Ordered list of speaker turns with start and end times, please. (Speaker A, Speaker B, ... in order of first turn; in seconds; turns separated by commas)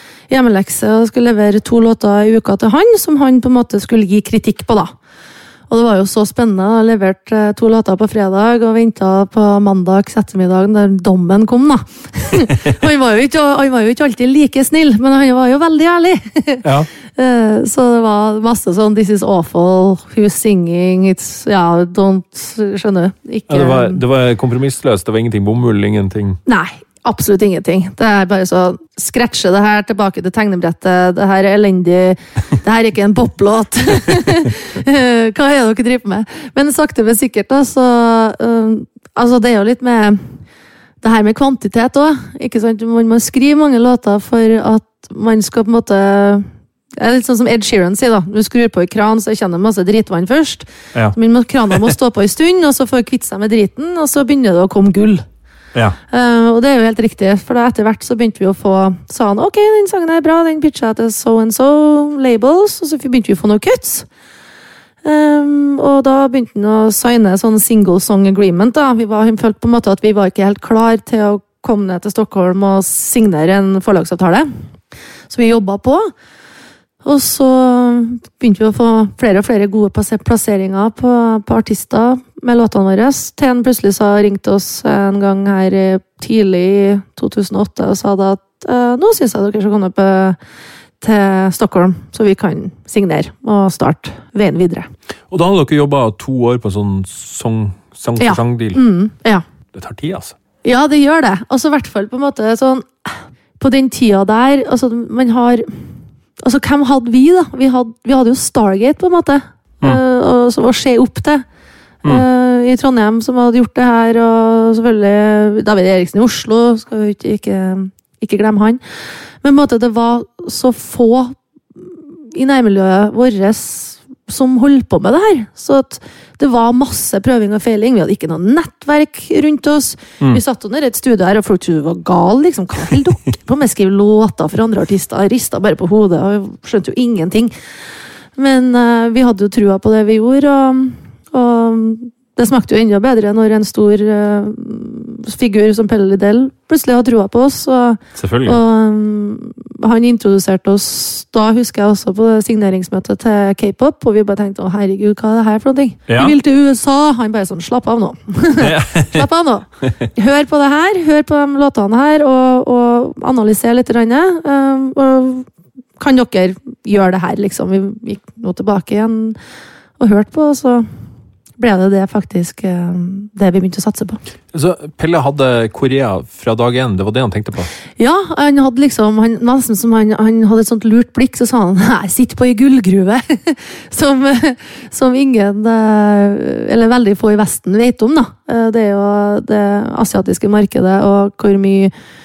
Speaker A: 0.3-4.9, Speaker A: 5.7-24.0, Speaker B: 16.6-16.9, Speaker B: 23.5-26.4, Speaker A: 26.4-40.3, Speaker A: 41.0-46.5, Speaker A: 47.0-55.2, Speaker A: 56.1-64.1, Speaker A: 65.0-74.5, Speaker A: 75.3-76.1, Speaker A: 77.0-90.4, Speaker A: 91.0-94.9, Speaker B: 95.3-98.8, Speaker A: 98.2-99.4, Speaker B: 99.7-100.3, Speaker A: 100.6-105.7, Speaker A: 106.4-111.4, Speaker A: 112.0-118.8, Speaker A: 119.4-137.5, Speaker A: 138.3-165.5, Speaker B: 148.1-148.6, Speaker B: 156.1-156.3, Speaker B: 158.6-159.3, Speaker A: 166.0-169.4, Speaker A: 170.0-170.8, Speaker A: 171.6-174.2, Speaker B: 174.5-177.7, Speaker A: 178.0-191.9